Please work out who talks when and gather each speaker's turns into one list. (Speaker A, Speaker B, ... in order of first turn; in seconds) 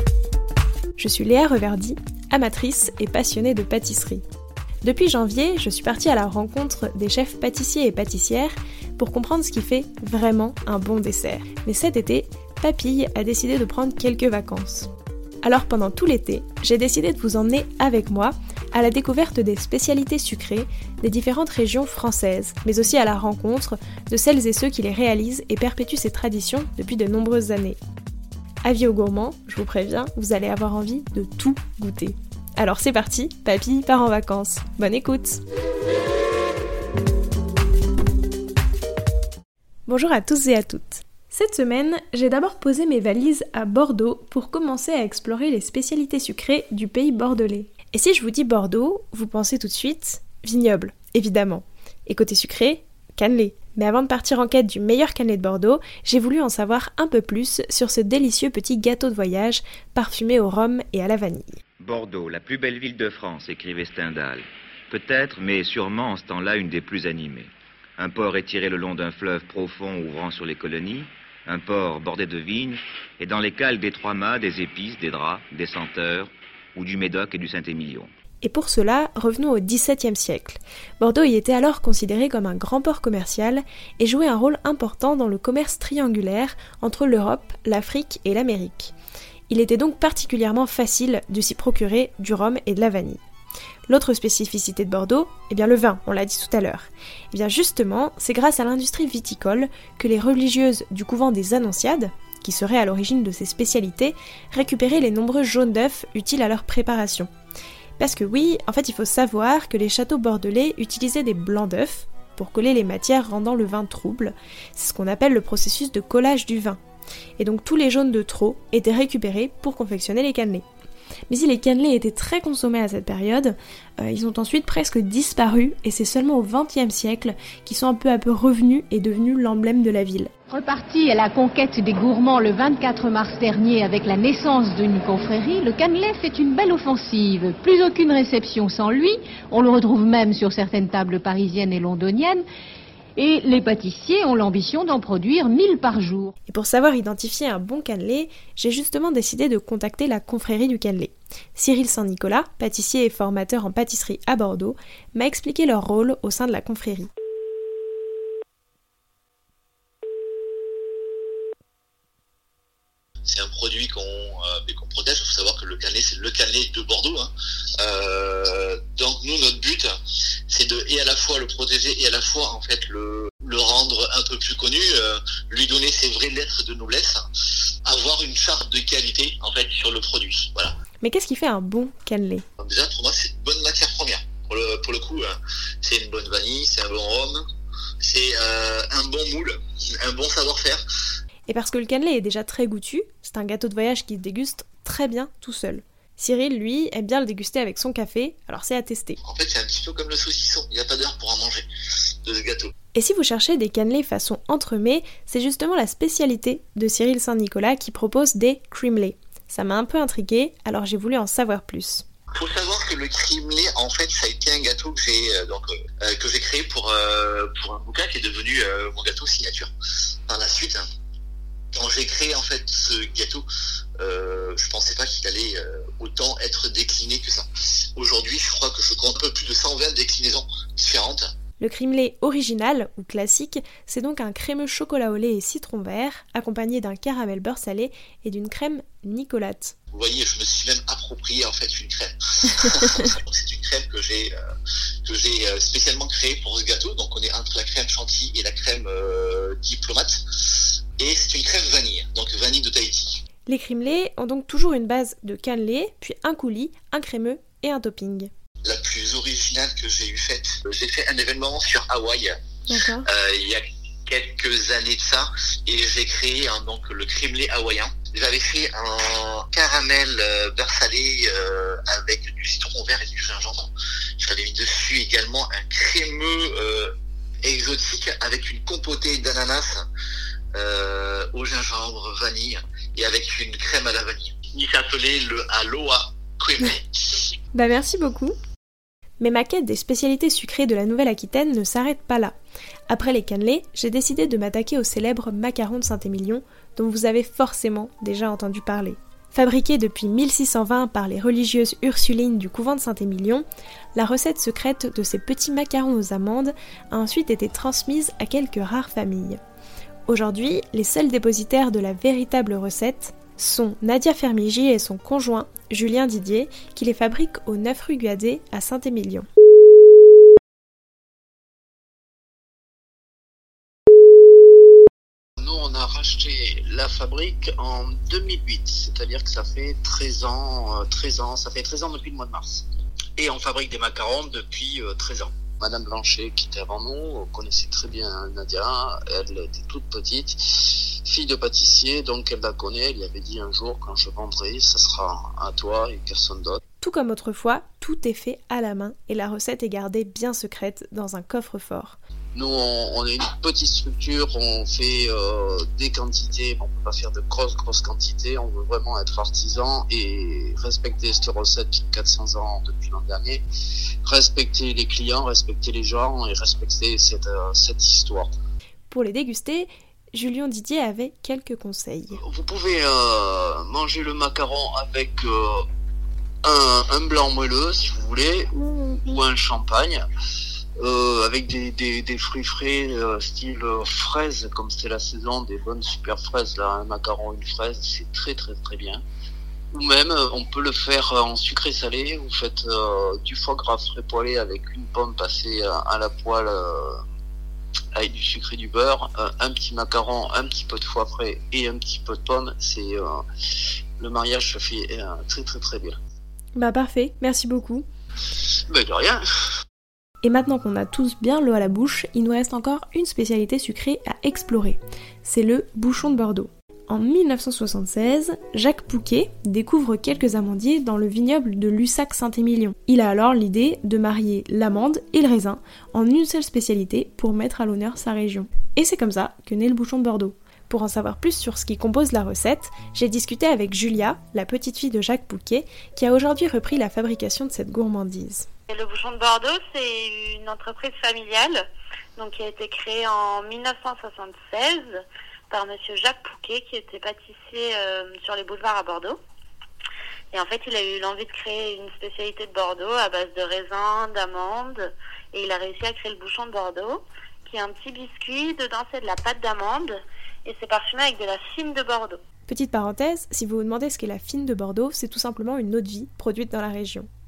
Speaker A: 1.0-4.2, 4.8-14.9, 15.4-27.8, 28.6-35.4, 39.9-61.6, 78.4-88.9, 89.5-93.2, 93.9-107.3, 108.0-116.8, 117.4-120.6, 121.3-130.3, 146.5-157.1, 181.0-182.4, 191.5-199.2, 202.9-212.0, 231.6-239.7, 253.5-258.3, 262.7-263.1, 287.5-288.3, 289.2-292.4, 292.9-303.4, 303.9-309.4, 310.1-319.2, 346.8-352.0, 368.9-372.2, 406.6-407.9, 410.2-438.4, 462.5-467.1
Speaker B: 61.8-78.1
Speaker C: 130.5-142.4, 143.2-146.3
Speaker D: 163.2-169.9, 170.5-177.2, 177.8-180.7, 182.6-187.4, 188.0-190.8, 199.2-201.6, 202.2-202.7, 212.3-219.7, 220.3-220.8, 221.7-223.4, 224.0-231.3, 239.9-244.3, 245.0-250.2, 251.0-253.2, 258.6-262.4, 263.1-279.9, 280.5-287.2
Speaker E: 325.4-332.6, 333.2-346.6, 352.3-363.4, 364.0-368.3, 372.1-375.6, 376.4-380.0, 380.8-389.0, 389.7-397.0, 397.9-403.2, 404.0-406.0, 408.7-409.2
Speaker F: 438.7-441.6, 442.1-449.2, 450.3-462.2